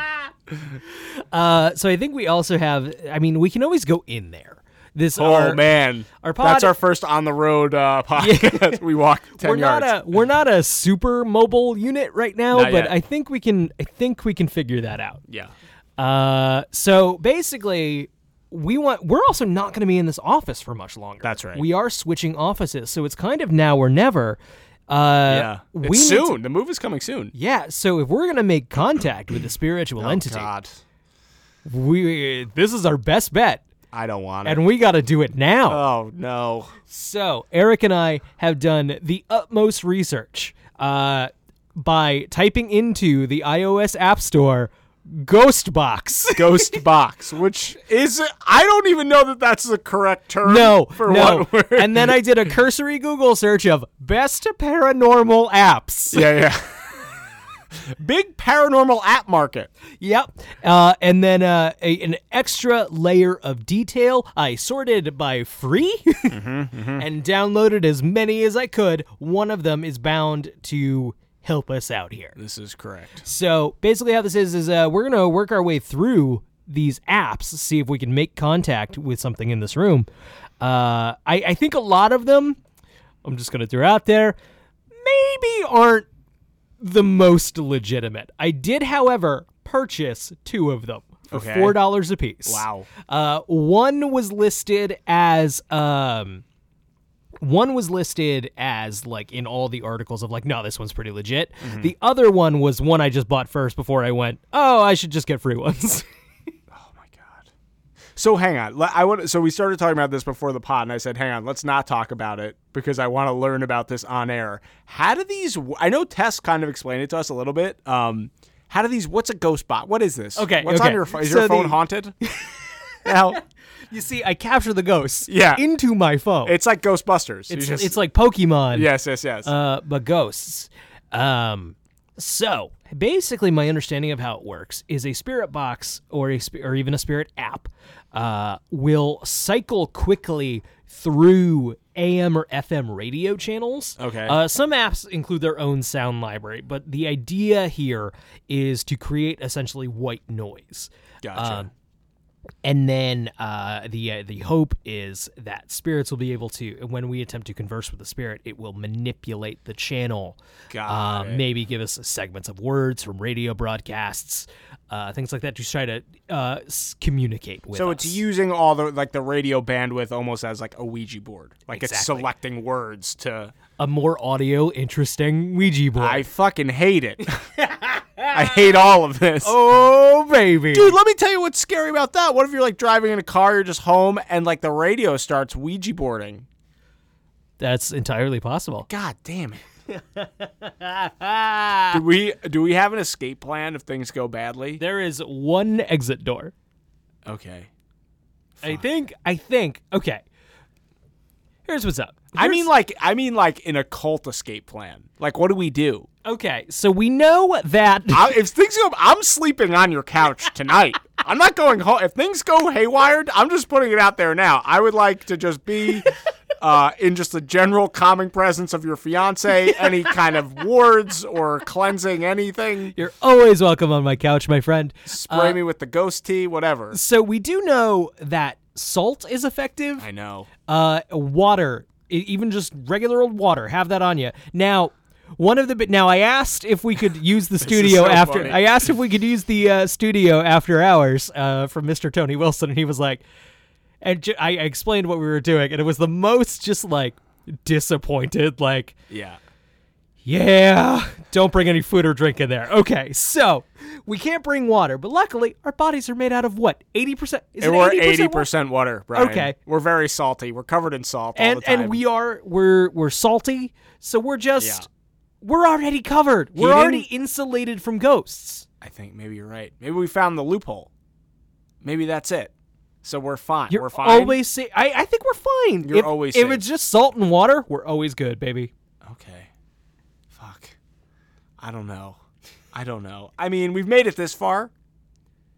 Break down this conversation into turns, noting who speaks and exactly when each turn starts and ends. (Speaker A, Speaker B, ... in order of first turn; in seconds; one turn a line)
Speaker A: 1.0-5.6
Speaker B: 5.2-10.0
Speaker A: 6.2-6.7
Speaker A: 8.2-8.8
Speaker A: 9.4-15.2
Speaker B: 12.5-12.9
Speaker B: 15.3-15.5
Speaker A: 16.0-26.4
Speaker B: 21.2-21.6
Speaker B: 25.3-27.3
Speaker A: 27.3-30.5
Speaker B: 30.0-30.8
Speaker A: 31.6-33.6
Speaker B: 33.9-34.6
Speaker A: 34.4-35.8
Speaker B: 35.7-36.7
Speaker A: 36.9-46.8
Speaker B: 46.3-52.2
Speaker A: 50.4-56.4
Speaker B: 56.1-56.7
Speaker B: 57.8-59.7
Speaker A: 60.0-66.4
Speaker B: 66.3-67.0
Speaker A: 67.0-72.3
Speaker B: 72.4-73.2
Speaker A: 73.2-80.1
Speaker A: 80.6-82.6
Speaker A: 83.2-84.4
Speaker A: 85.0-86.1
Speaker A: 86.8-96.4
Speaker B: 91.3-91.8
Speaker B: 92.4-92.9
Speaker A: 97.4-106.0
Speaker B: 101.6-101.9
Speaker B: 106.7-107.5
Speaker B: 108.2-122.1
Speaker A: 120.3-122.5
Speaker B: 123.0-123.4
Speaker A: 123.9-126.5
Speaker B: 125.3-125.6
Speaker B: 126.4-128.0
Speaker A: 127.5-128.9
Speaker B: 128.7-129.5
Speaker A: 129.4-151.7
Speaker B: 144.0-144.4
Speaker B: 151.2-151.7
Speaker A: 152.6-168.2
Speaker B: 160.7-161.4
Speaker B: 167.7-173.5
Speaker A: 171.7-172.3
Speaker A: 173.8-176.2
Speaker B: 175.9-177.6
Speaker A: 177.6-178.3
Speaker B: 178.3-179.6
Speaker A: 179.4-180.9
Speaker B: 180.7-186.5
Speaker A: 187.6-188.9
Speaker B: 188.9-189.6
Speaker A: 189.9-192.0
Speaker B: 191.9-194.8
Speaker A: 194.8-196.5
Speaker B: 197.2-197.7
Speaker B: 198.6-198.8
Speaker A: 198.6-200.2
Speaker A: 201.7-202.7
Speaker B: 202.3-206.1
Speaker A: 206.2-208.3
Speaker B: 208.1-222.9
Speaker A: 222.9-225.6
Speaker B: 225.1-227.0
Speaker A: 226.9-230.1
Speaker B: 230.0-230.5
Speaker A: 230.7-243.2
Speaker B: 237.6-238.6
Speaker A: 244.0-248.9
Speaker B: 249.1-249.4
Speaker A: 250.2-258.5
Speaker B: 257.6-262.0
Speaker A: 259.1-259.6
Speaker A: 261.4-264.9
Speaker B: 264.6-264.9
Speaker A: 265.4-268.6
Speaker B: 266.6-267.1
Speaker B: 268.8-270.9
Speaker B: 271.8-272.5
Speaker B: 273.0-274.4
Speaker A: 273.7-278.7
Speaker B: 275.8-276.6
Speaker B: 279.0-279.5
Speaker B: 280.3-280.8
Speaker B: 281.6-282.2
Speaker B: 282.7-284.7